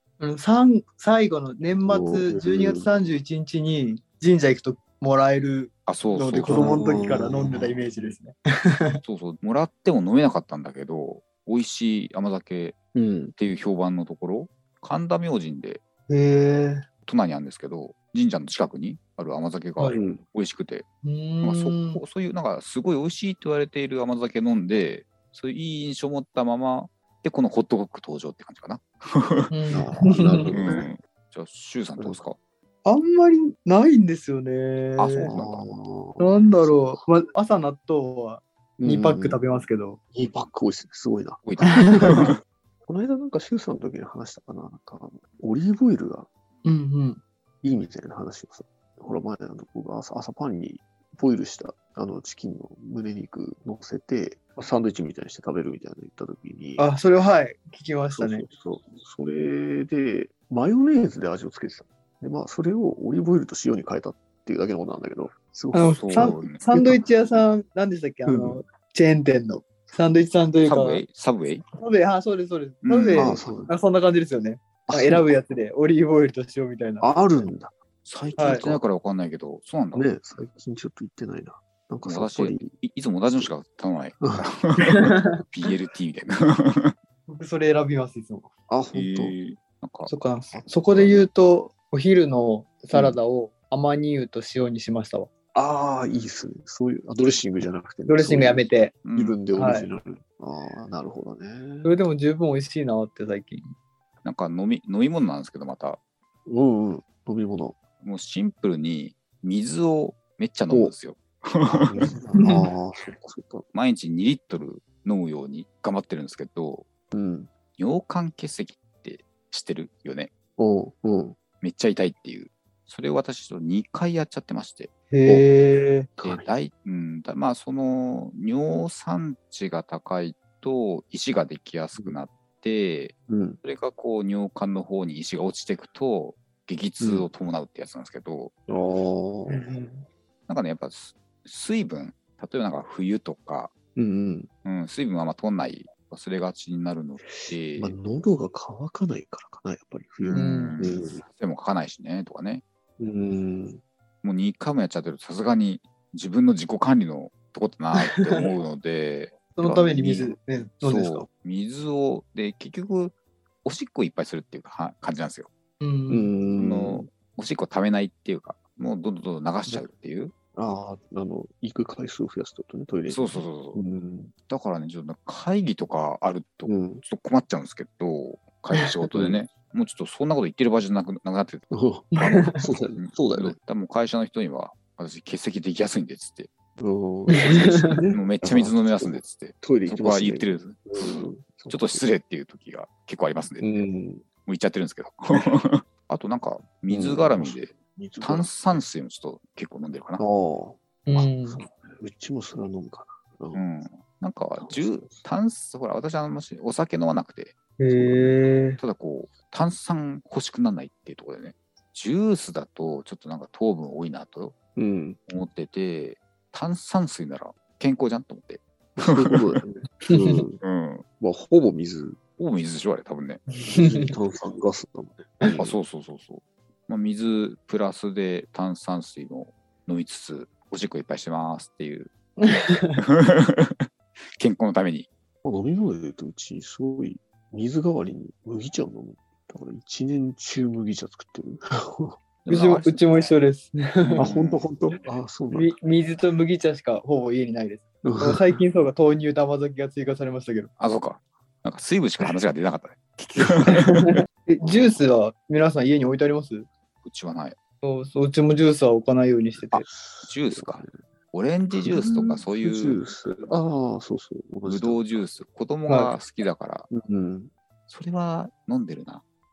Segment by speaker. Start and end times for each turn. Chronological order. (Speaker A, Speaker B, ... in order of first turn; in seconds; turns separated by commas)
Speaker A: 0.2-9.0, Speaker B: 1.9-2.9, Speaker C: 5.9-7.1, Speaker B: 6.5-7.8, Speaker C: 9.0-12.8, Speaker B: 12.9-13.3, Speaker C: 13.4-15.8, Speaker A: 16.1-16.8, Speaker C: 17.1-20.9, Speaker B: 19.9-20.2, Speaker A: 21.0-22.0, Speaker C: 21.4-29.5, Speaker A: 29.5-30.8, Speaker B: 29.7-30.9, Speaker C: 30.5-32.4, Speaker A: 32.9-35.3, Speaker C: 35.0-35.6, Speaker B: 35.3-37.0, Speaker A: 36.2-40.0, Speaker B: 38.8-39.4, Speaker B: 40.1-42.3, Speaker C: 41.4-42.4, Speaker A: 41.6-42.3, Speaker B: 42.9-46.3, Speaker A: 46.6-47.2, Speaker B: 47.6-56.9, Speaker A: 56.8-58.5, Speaker B: 58.1-67.0, Speaker A: 65.7-71.0, Speaker C: 65.9-66.7, Speaker B: 68.3-68.6, Speaker C: 70.6-71.6, Speaker A: 71.8-77.1, Speaker C: 72.8-73.5, Speaker B: 73.2-73.7, Speaker B: 74.9-75.3, Speaker B: 77.0-77.8, Speaker C: 78.0-80.1, Speaker B: 78.3-78.8, Speaker A: 78.4-78.7, Speaker B: 79.9-83.5, Speaker C: 82.0-86.9, Speaker A: 84.9-85.4, Speaker A: 87.3-88.5, Speaker B: 88.7-89.4, Speaker C: 88.9-90.1, Speaker A: 90.1-95.3, Speaker B: 90.5-91.2, Speaker B: 92.9-93.2, Speaker B: 95.5-102.0, Speaker A: 98.1-99.0, Speaker C: 99.0-99.4, Speaker A: 99.5-99.9, Speaker A: 101.8-103.7, Speaker C: 104.2-106.0, Speaker B: 106.5-107.8, Speaker C: 108.0-112.0, Speaker B: 111.7-113.7, Speaker A: 112.4-112.7, Speaker C: 113.7-116.9, Speaker B: 117.1-117.5, Speaker C: 117.8-120.3, Speaker B: 120.6-121.4, Speaker C: 121.6-124.9, Speaker A: 125.1-126.1, Speaker B: 126.2-126.5, Speaker C: 126.2-138.5, Speaker B: 133.3-133.6, Speaker B: 137.0-137.3, Speaker B: 138.7-139.7, Speaker A: 139.5-140.1, Speaker C: 140.5-143.7, Speaker B: 144.0-144.5, Speaker C: 144.7-147.9, Speaker B: 147.2-151.2, Speaker C: 150.2-152.6, Speaker A: 150.3-150.8, Speaker B: 153.0-153.8, Speaker C: 154.2-160.3, Speaker A: 158.0-158.5, Speaker A: 159.6-161.3, Speaker C: 160.8-165.5, Speaker A: 165.8-166.3, Speaker B: 166.1-167.1, Speaker C: 166.6-170.3, Speaker B: 170.6-174.3, Speaker C: 173.1-173.8, Speaker C: 174.5-181.6, Speaker B: 176.7-177.0, Speaker B: 179.1-179.4, Speaker B: 181.7-183.6, Speaker A: 182.1-182.7, Speaker C: 182.2-186.5, Speaker B: 186.8-192.0, Speaker A: 187.3-188.0, Speaker C: 187.4-193.7, Speaker B: 193.6-194.3, Speaker C: 194.5-200.2, Speaker B: 196.9-198.8, Speaker B: 200.2-203.7, Speaker A: 201.1-201.6, Speaker C: 203.5-208.2, Speaker B: 204.6-205.2, Speaker A: 207.8-208.8, Speaker C: 208.8-214.5, Speaker B: 214.8-215.2, Speaker C: 215.3-219.4, Speaker B: 219.0-220.6, Speaker A: 220.1-220.4, Speaker C: 220.6-221.0, Speaker B: 221.2-222.2, Speaker C: 222.4-223.4, Speaker A: 223.6-224.1, Speaker B: 223.7-225.8, Speaker C: 225.6-232.1, Speaker A: 232.4-233.0, Speaker C: 233.0-233.8, Speaker C: 234.4-235.1, Speaker B: 235.4-242.2, Speaker C: 242.4-243.0, Speaker A: 242.5-244.3, Speaker C: 244.1-244.6, Speaker B: 244.2-245.7, Speaker A: 245.5-250.7, Speaker B: 248.0-248.6, Speaker C: 250.8-254.8, Speaker A: 253.7-256.7, Speaker C: 257.0-257.6, Speaker A: 257.8-259.8, Speaker C: 259.7-263.0, Speaker B: 259.8-261.0, Speaker B: 261.7-265.2, Speaker C: 264.6-266.9, Speaker A: 265.9-266.2, Speaker B: 266.9-267.5, Speaker C: 267.9-269.2